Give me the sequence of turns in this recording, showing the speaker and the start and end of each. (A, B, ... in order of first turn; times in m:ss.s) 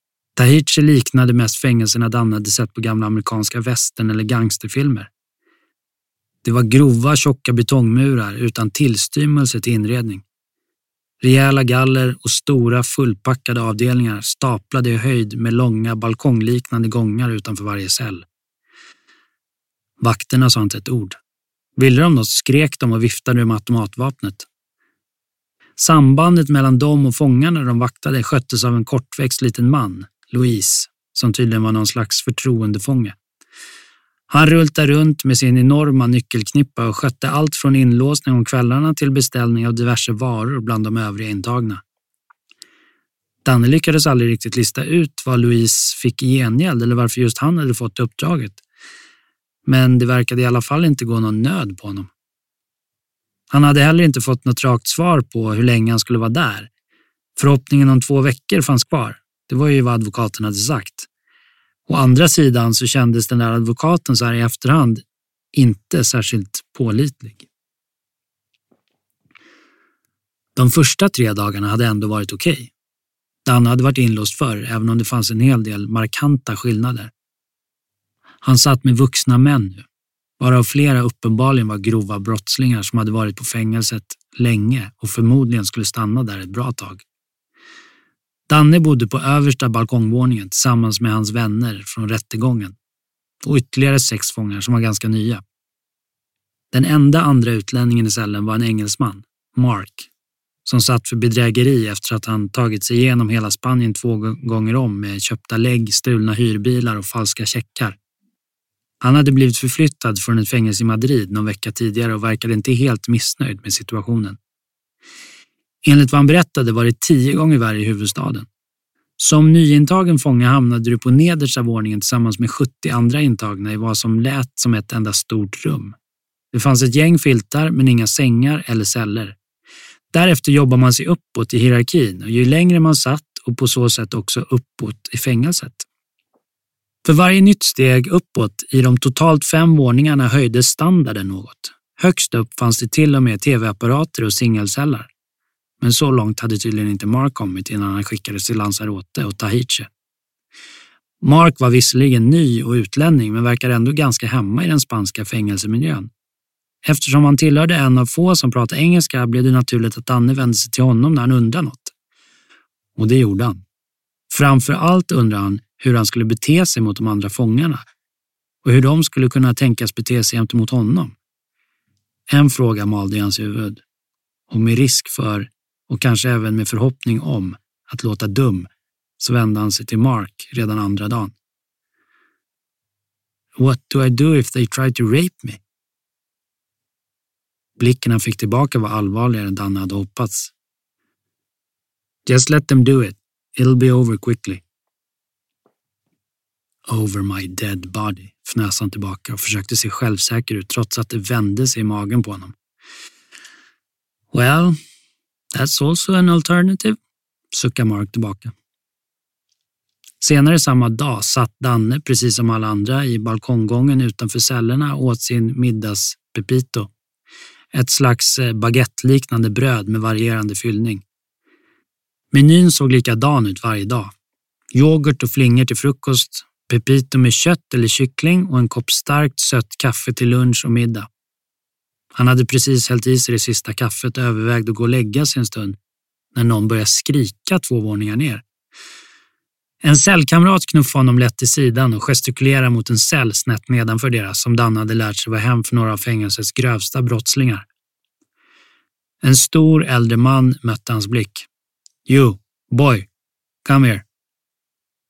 0:00.4-0:05.1 A
0:06.4-0:10.2 A
0:11.2-0:18.2 A
0:20.0-0:21.2 A
0:21.8-0:24.5 A
0:25.8-0:33.2 A
0:34.3-0:41.8 A
0:43.4-0:48.6 A
0:49.7-0:52.1 A
0:53.5-0:56.7 A
0:57.4-1:01.1 A
1:01.9-1:05.0 A
1:05.5-1:07.5 A
1:10.6-1:12.7 A
1:13.4-1:17.1 A
1:18.4-1:19.9 A
1:20.4-1:27.0 A
1:28.5-1:32.8 A
1:33.4-1:35.4 A
1:36.7-1:40.1 A
1:40.6-1:48.0 A
1:49.0-1:54.4 A
1:55.8-1:58.5 A
1:59.2-2:06.0 A
2:06.5-2:09.4 A
2:10.1-2:15.9 A
2:17.0-2:25.1 A
2:25.8-2:29.9 A
2:31.2-2:36.1 A
2:36.8-2:41.9 A
2:43.0-2:43.6 A
2:44.3-2:47.8 A
2:48.6-2:51.2 A
2:52.3-2:53.8 A
2:54.5-2:58.7 A
2:59.2-3:01.3 A
3:03.6-3:05.6 A
3:07.8-3:10.5 A
3:12.3-3:14.6 A
3:16.9-3:22.5 A
3:24.3-3:24.8 A
3:25.5-3:27.0 A
3:27.5-3:28.5 A
3:30.2-3:36.9 A
3:37.7-3:41.0 A
3:42.3-3:44.1 A
3:44.7-3:51.1 A
3:52.1-3:55.8 A
3:56.3-3:58.4 A
3:59.8-4:07.7 A
4:09.2-4:11.5 A
4:12.1-4:13.1 A
4:13.6-4:14.0 A